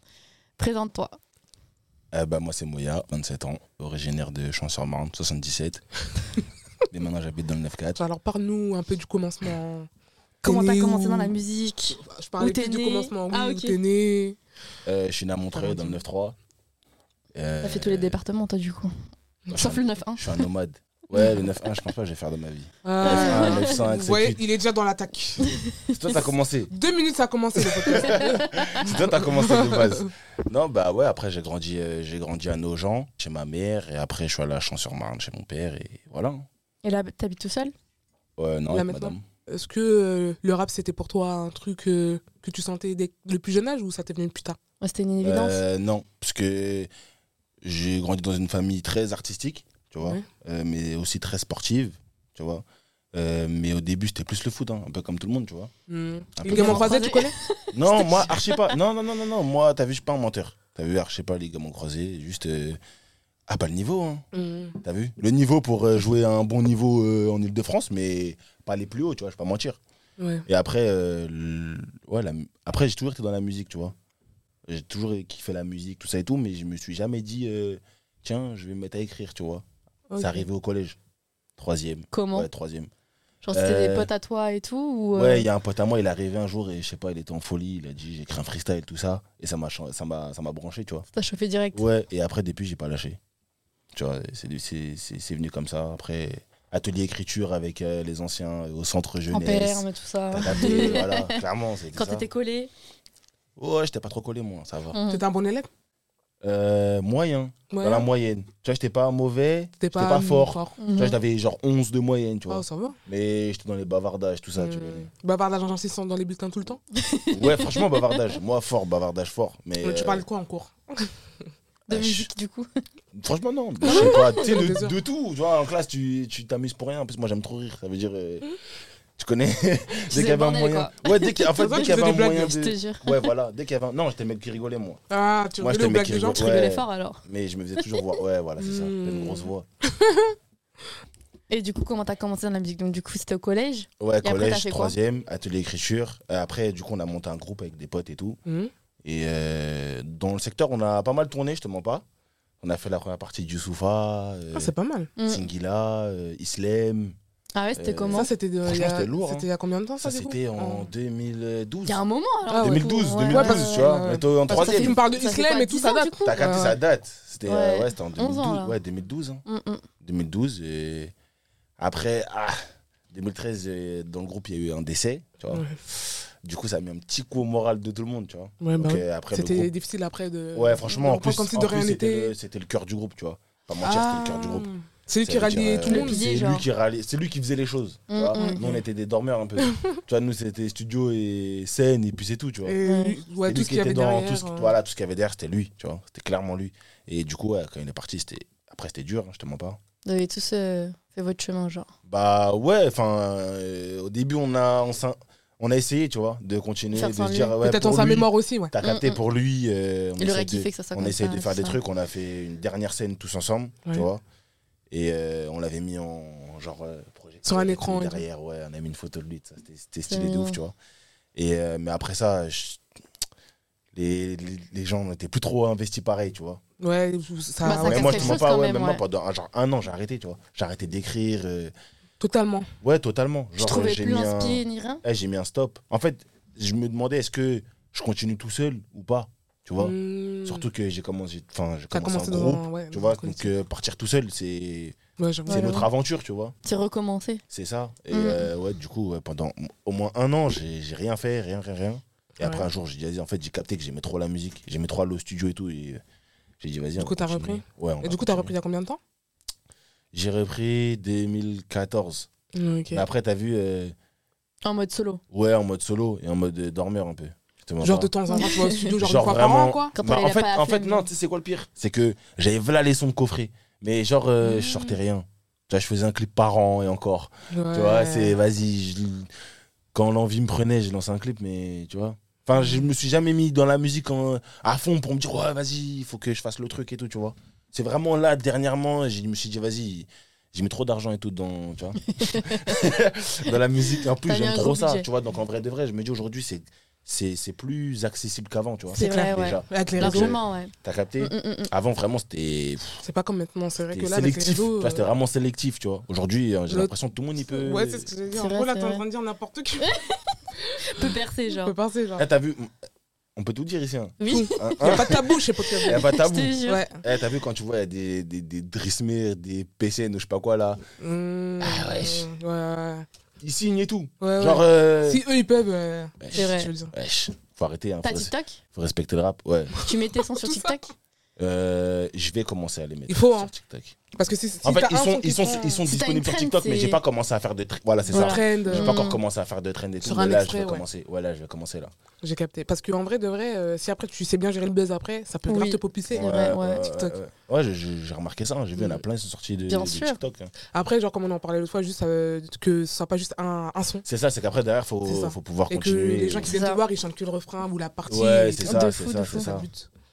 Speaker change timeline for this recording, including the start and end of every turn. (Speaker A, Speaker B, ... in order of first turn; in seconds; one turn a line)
Speaker A: 0.6-1.2
Speaker B: 2.1-5.8
Speaker B: 6.9-8.0
Speaker C: 8.0-9.9
Speaker C: 10.4-11.4
Speaker A: 10.4-13.8
Speaker C: 12.1-14.4
Speaker B: 14.8-16.4
Speaker C: 15.6-16.0
Speaker B: 17.4-18.2
Speaker A: 17.6-18.9
Speaker A: 19.5-20.4
Speaker B: 19.5-24.4
Speaker C: 22.9-25.6
Speaker A: 23.0-23.8
Speaker A: 25.4-26.0
Speaker B: 25.9-26.7
Speaker C: 26.7-30.1
Speaker B: 27.6-36.5
Speaker A: 36.8-37.7
Speaker B: 38.4-39.2
Speaker C: 38.7-44.6
Speaker A: 44.8-45.6
Speaker B: 45.2-46.9
Speaker B: 47.6-52.6
Speaker B: 53.1-55.7
Speaker C: 55.9-57.4
Speaker B: 56.4-57.0
Speaker A: 56.5-58.7
Speaker B: 57.7-62.8
Speaker B: 63.5-64.3
Speaker C: 64.3-64.8
Speaker B: 64.8-69.8
Speaker C: 70.2-70.5
Speaker B: 70.5-74.0
Speaker B: 74.7-79.6
Speaker C: 80.1-80.5
Speaker B: 80.2-81.0
Speaker B: 81.6-82.9
Speaker A: 82.1-82.5
Speaker A: 83.4-85.5
Speaker B: 83.5-84.1
Speaker B: 85.2-91.1
Speaker A: 91.1-91.8
Speaker B: 91.7-93.2
Speaker B: 93.9-102.2
Speaker A: 99.3-101.4
Speaker C: 100.6-101.0
Speaker A: 101.9-102.7
Speaker B: 103.6-105.0
Speaker A: 104.9-105.2
Speaker C: 105.1-105.7
Speaker B: 106.4-115.1
Speaker C: 107.7-108.1
Speaker C: 109.8-110.8
Speaker A: 110.8-111.2
Speaker C: 112.5-113.0
Speaker C: 114.6-116.8
Speaker A: 117.0-118.2
Speaker B: 117.3-120.2
Speaker C: 119.8-121.1
Speaker A: 121.9-122.8
Speaker B: 121.9-122.3
Speaker B: 123.1-128.5
Speaker A: 123.8-124.5
Speaker C: 123.8-125.0
Speaker B: 129.2-135.0
Speaker A: 130.1-133.3
Speaker C: 131.5-132.6
Speaker C: 135.1-136.5
Speaker B: 135.6-139.7
Speaker A: 136.3-137.2
Speaker C: 138.6-140.3
Speaker A: 141.5-144.9
Speaker B: 144.0-148.4
Speaker C: 148.5-148.7
Speaker B: 149.0-152.0
Speaker B: 152.6-154.7
Speaker C: 154.5-155.1
Speaker A: 155.2-155.5
Speaker B: 155.3-157.2
Speaker A: 157.6-158.3
Speaker B: 157.8-159.5
Speaker C: 158.1-160.9
Speaker B: 160.0-162.0
Speaker A: 161.9-166.4
Speaker C: 162.5-166.8
Speaker B: 162.6-165.0
Speaker B: 166.2-169.4
Speaker A: 167.5-168.8
Speaker A: 169.5-169.9
Speaker B: 170.0-171.1
Speaker B: 171.8-179.7
Speaker C: 175.5-175.8
Speaker C: 178.6-182.3
Speaker B: 180.5-184.7
Speaker C: 183.8-186.2
Speaker B: 185.2-192.8
Speaker A: 185.8-186.7
Speaker A: 188.1-188.6
Speaker C: 188.3-188.8
Speaker C: 189.6-190.0
Speaker C: 192.7-194.8
Speaker A: 192.8-193.2
Speaker B: 193.4-199.8
Speaker A: 200.1-201.9
Speaker B: 202.1-214.2
Speaker A: 206.9-207.6
Speaker C: 207.6-208.7
Speaker A: 208.8-209.2
Speaker A: 210.2-211.8
Speaker B: 214.9-220.8
Speaker C: 217.4-218.2
Speaker A: 220.1-220.6
Speaker B: 221.3-222.8
Speaker B: 223.9-226.6
Speaker C: 226.8-228.3
Speaker A: 227.6-229.0
Speaker B: 227.7-231.7
Speaker C: 232.2-232.7
Speaker B: 232.8-245.0
Speaker A: 233.6-235.0
Speaker C: 239.8-240.7
Speaker C: 241.9-243.5
Speaker C: 245.2-245.8
Speaker A: 245.5-245.9
Speaker B: 245.5-246.6
Speaker A: 246.7-247.4
Speaker B: 247.5-256.0
Speaker A: 248.1-248.5
Speaker C: 252.4-252.7
Speaker B: 256.6-258.5
Speaker C: 257.0-259.0
Speaker B: 260.1-262.3
Speaker C: 262.5-263.1
Speaker B: 262.9-263.9
Speaker A: 264.6-265.2
Speaker B: 265.3-268.1
Speaker C: 267.8-269.9
Speaker A: 268.3-268.9
Speaker B: 268.9-279.3
Speaker A: 269.9-271.1
Speaker C: 277.5-278.4
Speaker B: 279.9-303.0
Speaker A: 292.1-292.9
Speaker A: 293.9-295.1
Speaker C: 298.9-300.4
Speaker A: 298.9-301.7
Speaker C: 303.0-305.1
Speaker B: 303.9-308.1
Speaker C: 307.5-310.0
Speaker A: 308.3-309.0
Speaker A: 309.8-311.7
Speaker C: 310.7-312.3
Speaker B: 312.2-312.7
Speaker B: 313.4-320.8
Speaker A: 314.2-315.1
Speaker C: 314.3-316.1
Speaker A: 315.9-316.9
Speaker C: 316.6-317.0
Speaker C: 321.0-323.1
Speaker B: 321.6-322.3
Speaker B: 323.4-325.2
Speaker C: 324.2-326.9
Speaker B: 326.2-329.8
Speaker A: 326.3-326.7
Speaker A: 328.0-328.6
Speaker A: 329.8-330.9
Speaker C: 330.4-330.8
Speaker B: 331.4-334.0
Speaker C: 333.1-333.5
Speaker C: 334.1-335.9
Speaker B: 334.6-341.9
Speaker A: 335.9-337.0
Speaker C: 338.1-339.1
Speaker A: 338.1-339.2
Speaker C: 340.0-340.8
Speaker C: 342.2-346.3
Speaker A: 345.5-346.9
Speaker B: 346.1-350.5
Speaker A: 349.7-350.2
Speaker C: 350.7-354.1
Speaker B: 354.1-356.6
Speaker C: 355.1-358.8
Speaker A: 356.5-356.8
Speaker B: 358.1-359.7
Speaker A: 358.6-359.6
Speaker C: 359.3-359.9